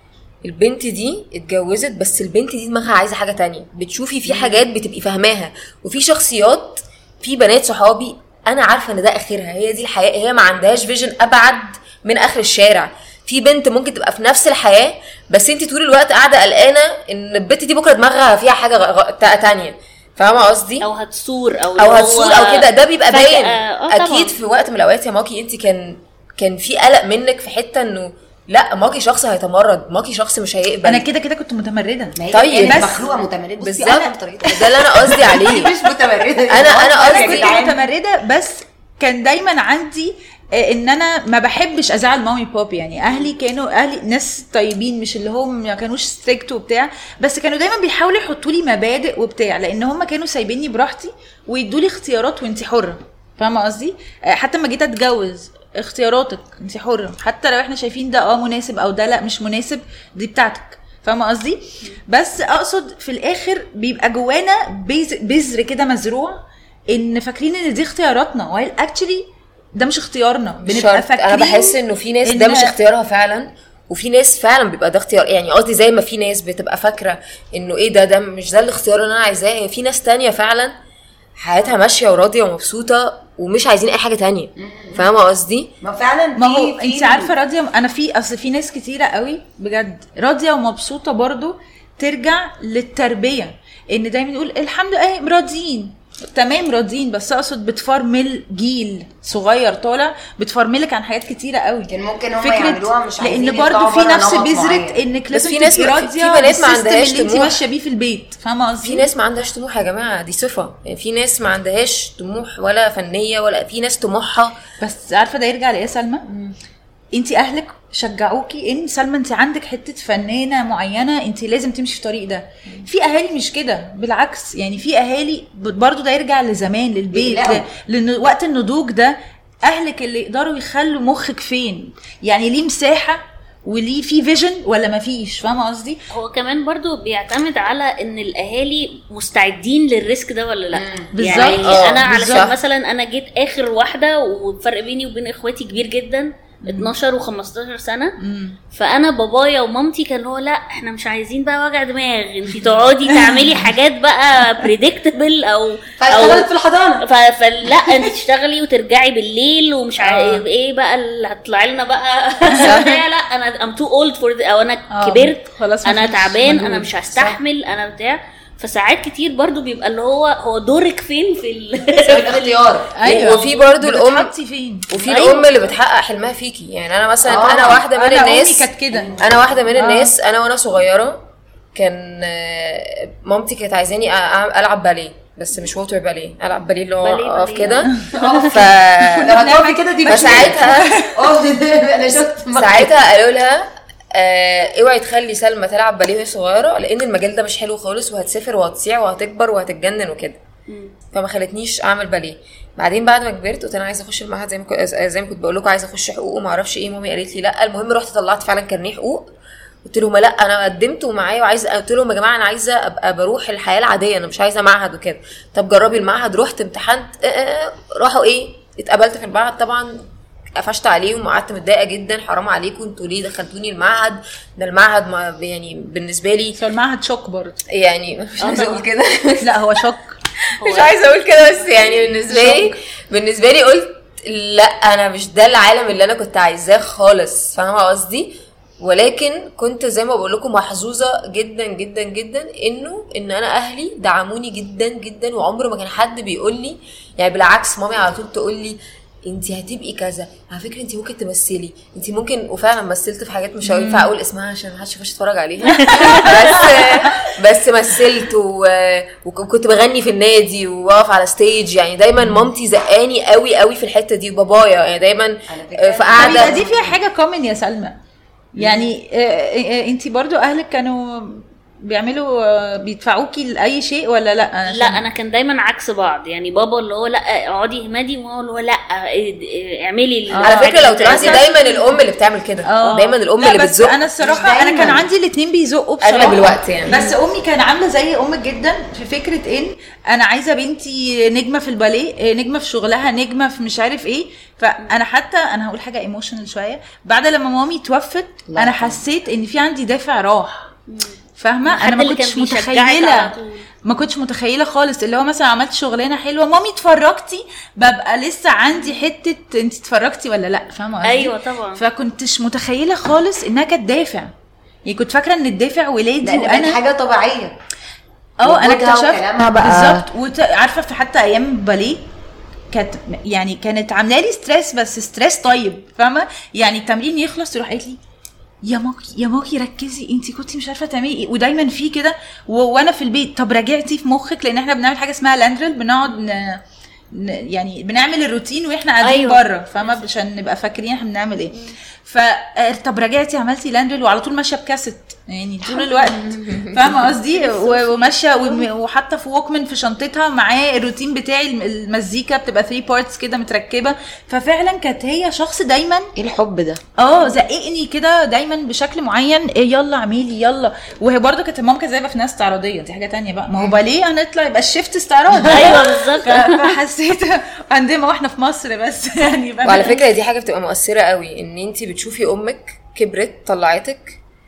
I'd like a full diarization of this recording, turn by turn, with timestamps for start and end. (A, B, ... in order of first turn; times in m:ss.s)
0:00.4-0:20.9 A
0:20.8-0:24.3 B
0:21.8-0:31.0 A
0:30.8-0:33.0 C
0:32.2-0:37.8 D
0:32.3-0:32.9 A
0:33.6-0:35.7 A
0:36.5-0:37.5 A
0:36.9-1:12.8 C
1:10.6-1:20.7 A
1:21.4-1:25.7 A
1:24.6-1:25.0 D
1:25.8-1:27.3 D
1:26.4-1:49.0 C
1:41.9-1:45.0 D
1:45.3-1:47.6 A
1:48.8-1:54.6 A
1:54.8-1:56.3 C
1:57.1-2:16.0 C
2:07.1-2:07.6 D
2:16.1-2:28.2 B
2:20.7-2:21.1 D
2:21.1-2:22.4 C
2:21.4-2:22.5 A
2:26.6-2:26.9 C
2:28.2-2:28.6 C
2:28.7-2:36.5 B
2:33.1-2:33.6 C
2:36.0-2:37.0 D
2:37.0-2:52.7 B
2:40.0-2:40.4 C
2:42.5-2:42.9 C
2:42.6-2:42.8 A
2:44.9-2:46.9 C
2:51.9-2:52.9 D
2:52.9-2:55.0 C
2:53.0-2:54.3 A
2:54.9-3:09.5 A
2:55.0-2:55.6 B
2:57.2-2:57.8 D
2:57.9-2:59.2 C
2:59.7-3:00.1 C
3:07.0-3:07.9 B
3:07.9-3:08.2 C
3:08.1-3:12.9 D
3:09.0-3:11.2 C
3:10.0-3:11.0 A
3:12.5-3:20.4 A
3:20.7-3:20.9 B
3:21.1-3:29.3 A
3:29.8-3:46.6 A
3:46.6-3:47.6 C
3:47.6-3:49.6 A
3:48.4-3:48.8 B
3:49.4-3:50.2 C
3:50.6-3:51.0 B
3:50.6-4:26.6 A
3:52.3-3:52.8 C
4:13.6-4:14.1 C
4:15.7-4:17.3 C
4:15.9-4:16.4 B
4:22.2-4:22.5 C
4:25.5-4:27.0 D
4:26.2-4:28.0 C
4:28.6-4:35.0 C
4:34.7-4:41.6 B
4:40.3-4:41.8 C
4:40.4-4:44.0 A
4:42.6-5:00.7 C
4:44.2-4:45.0 D
4:46.0-4:47.0 A
4:58.5-4:59.0 D
5:00.9-5:03.7 B
5:01.4-5:03.3 C
5:03.8-5:14.3 C
5:11.0-5:11.8 B
5:14.8-5:16.8 C
5:16.2-5:17.6 D
5:18.4-5:22.1 C
5:18.4-5:20.0 D
5:22.7-5:28.0 C
5:28.6-5:56.1 C
5:39.0-5:39.9 B
5:47.3-5:48.6 B
5:56.2-5:56.8 D
5:57.0-6:10.0 C
6:05.4-6:06.7 B
6:09.6-6:14.2 A